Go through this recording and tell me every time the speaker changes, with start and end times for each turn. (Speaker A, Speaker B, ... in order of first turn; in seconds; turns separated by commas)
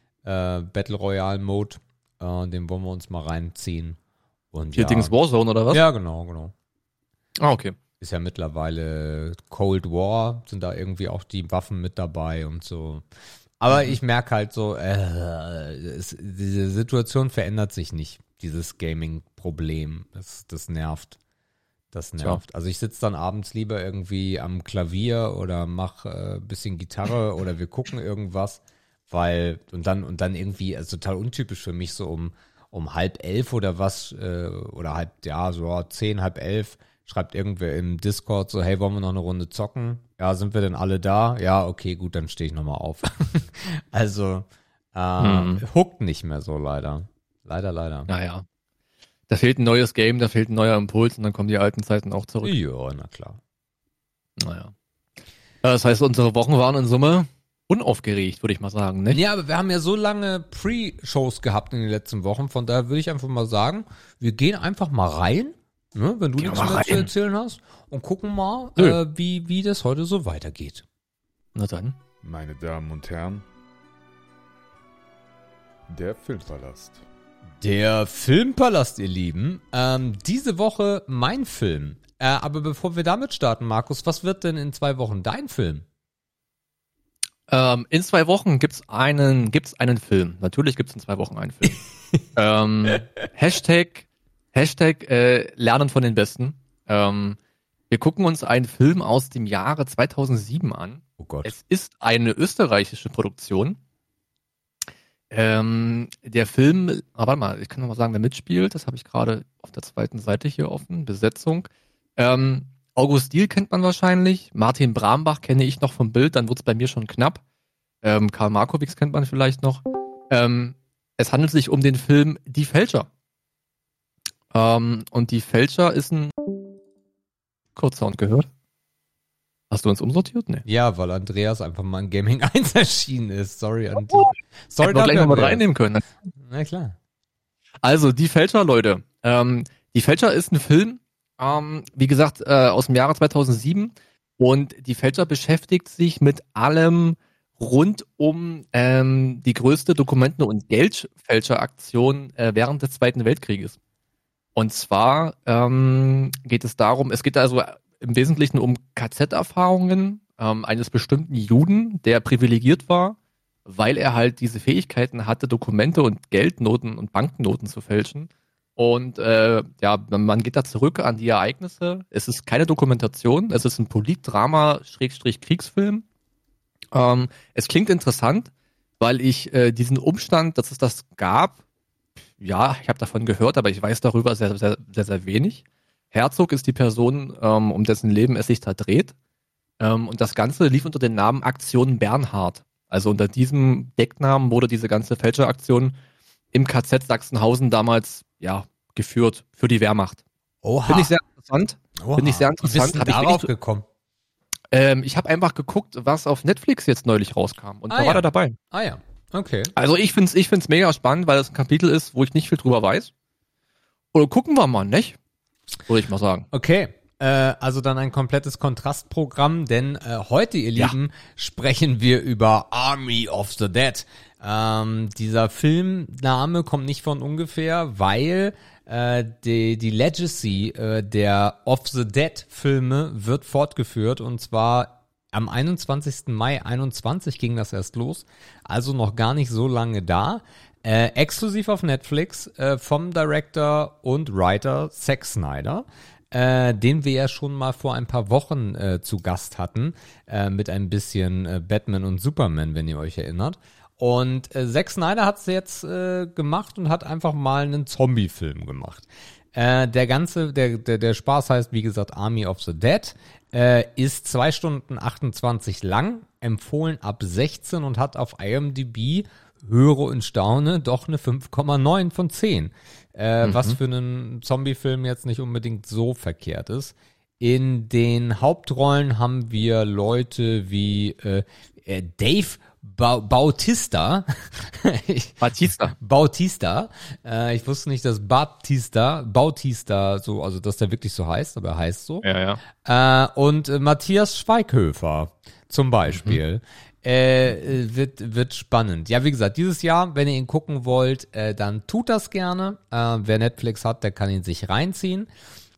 Speaker A: 0.2-4.0, Speaker A: 4.5-5.1, Speaker B: 4.8-5.8, Speaker A: 5.7-6.5, Speaker B: 7.4-7.8, Speaker A: 8.0-13.0, Speaker A: 13.6-21.2, Speaker B: 13.7-14.0, Speaker A: 21.9-48.1, Speaker B: 45.2-45.6, Speaker B: 48.1-48.5, Speaker B: 49.3-52.5, Speaker A: 52.4-53.4, Speaker B: 54.4-54.7, Speaker B: 55.6-59.2, Speaker A: 59.1-70.8, Speaker B: 66.4-67.1, Speaker B: 71.5-72.0, Speaker C: 72.2-73.5, Speaker C: 75.9-77.0, Speaker A: 77.6-85.8, Speaker B: 87.5-91.8, Speaker B: 92.3-97.4, Speaker B: 97.9-103.8, Speaker A: 101.2-101.5, Speaker B: 105.3-117.4, Speaker B: 118.0-123.1, Speaker B: 124.5-126.3, Speaker B: 127.8-128.5, Speaker B: 129.7-130.6, Speaker A: 130.7-135.6, Speaker B: 134.8-136.1, Speaker A: 136.4-137.0, Speaker B: 137.8-153.8, Speaker B: 154.6-176.0, Speaker B: 176.9-181.6, Speaker B: 182.4-189.1, Speaker B: 189.8-195.9, Speaker B: 196.5-200.2, Speaker A: 200.6-201.2, Speaker B: 200.9-203.5, Speaker A: 202.0-203.9, Speaker B: 204.7-208.6, Speaker A: 207.9-209.7, Speaker B: 209.8-213.1, Speaker B: 214.1-215.2, Speaker B: 215.9-216.5, Speaker A: 216.5-285.4, Speaker B: 273.4-273.8, Speaker B: 285.4-285.9, Speaker A: 285.9-292.3, Speaker B: 292.2-292.6, Speaker A: 292.8-305.3, Speaker B: 296.1-296.4